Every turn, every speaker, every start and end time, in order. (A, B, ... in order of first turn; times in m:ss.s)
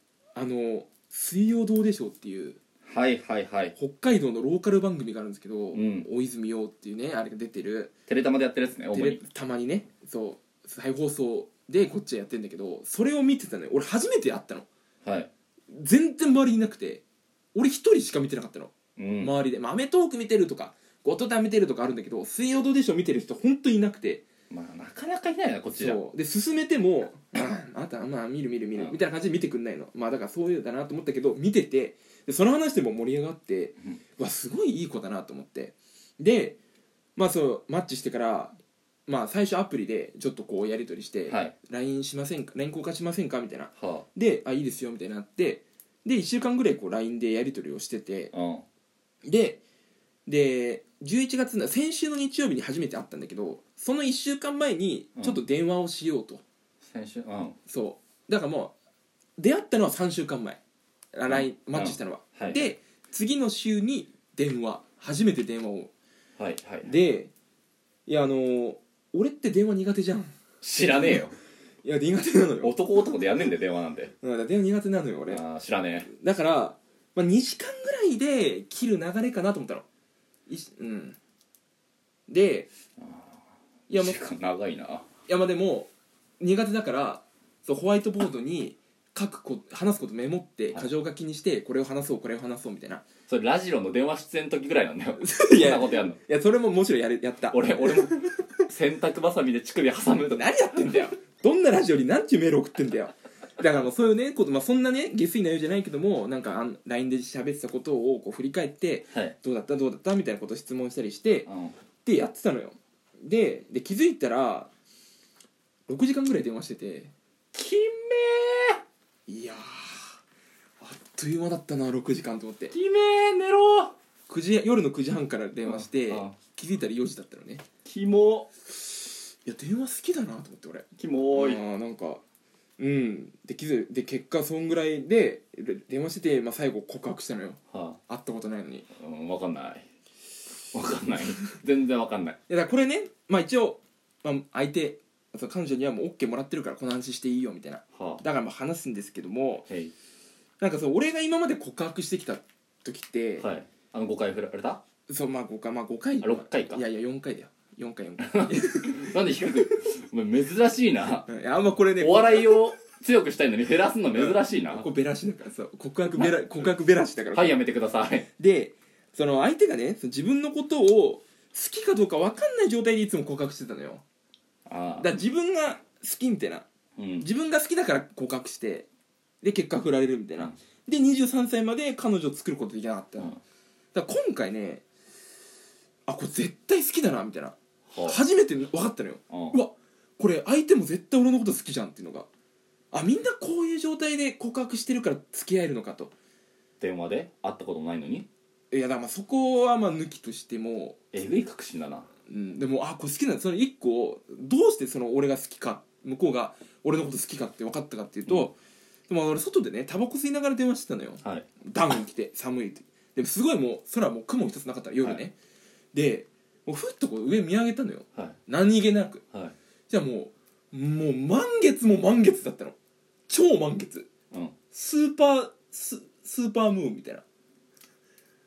0:00.3-0:02.6 A
0:02.9-0:03.7 B
0:03.8-0:07.9 A
0:05.7-0:06.1 B
0:08.1-0:09.2 B
0:08.9-0:14.7 A
0:15.0-0:15.3 B
0:15.7-0:17.0 A
0:17.5-0:24.2 A
0:19.0-0:19.3 B
0:24.5-0:26.0 B
0:25.7-0:36.6 A
0:37.2-0:38.5 A
0:39.1-0:48.3 A
0:41.3-0:41.5 B
0:43.8-0:44.0 B
0:48.3-0:48.6 B
0:49.2-0:49.6 A
0:50.2-0:56.4 A
0:56.8-0:57.6 B
0:57.7-0:58.7 A
0:59.4-1:00.6 A
1:01.1-1:05.9 A
1:01.3-1:02.7 B
1:06.4-1:06.9 B
1:06.8-1:07.3 A
1:08.1-1:10.3 A
1:10.6-1:11.3 B
1:11.0-1:11.2 A
1:11.8-1:12.7 A
1:12.6-1:14.1 B
1:14.2-1:15.4 A
1:15.3-1:16.1 B
1:16.1-1:19.8 A
1:20.5-1:21.2 A
1:22.3-1:22.7 A
1:23.9-1:24.2 A
1:23.9-1:25.0 B
1:25.3-1:33.0 A
1:33.3-1:36.2 B
1:35.2-1:38.4 A
1:37.5-1:41.1 B
1:40.1-1:51.5 A
1:51.5-1:51.7 B
1:52.0-1:54.7 A
1:55.9-1:57.1 A
1:57.5-1:58.8 B
1:59.3-2:00.2 A
2:00.8-2:02.7 A
2:02.7-2:03.9 B
2:04.3-2:07.6 A
2:05.6-2:06.4 B
2:07.8-2:08.5 B
2:09.4-2:12.2 A
2:11.0-2:11.6 B
2:12.8-2:18.9 A
2:17.7-2:18.0 B
2:18.9-2:19.8 B
2:20.7-2:22.4 B
2:22.5-2:29.6 A
2:27.9-2:28.2 B
2:29.7-2:29.9 B
2:30.6-2:33.5 A
2:33.4-2:34.8 B
2:35.1-2:39.6 A
2:36.2-2:36.8 B
2:38.2-2:41.3 B
2:41.3-2:42.7 A
2:42.0-2:44.8 B
2:44.1-2:47.6 A
2:46.1-2:46.6 B
2:47.3-2:48.3 B
2:48.4-2:54.0 A
2:54.7-2:55.1 B
2:55.0-2:56.7 A
2:57.0-2:57.2 B
2:57.2-2:58.9 A
2:59.4-3:03.3 A
3:03.9-3:04.8 A
3:06.1-3:12.3 A
3:07.9-3:08.2 B
3:09.3-3:09.6 B
3:12.9-3:16.1 A
3:16.8-3:18.3 B
3:18.7-3:21.0 A
3:21.1-3:22.1 B
3:22.3-3:28.6 A
3:29.1-3:35.3 A
3:31.2-3:31.5 B
3:35.9-3:39.2 A
3:39.9-3:42.8 A
3:43.3-3:44.1 A
3:44.7-3:47.2 A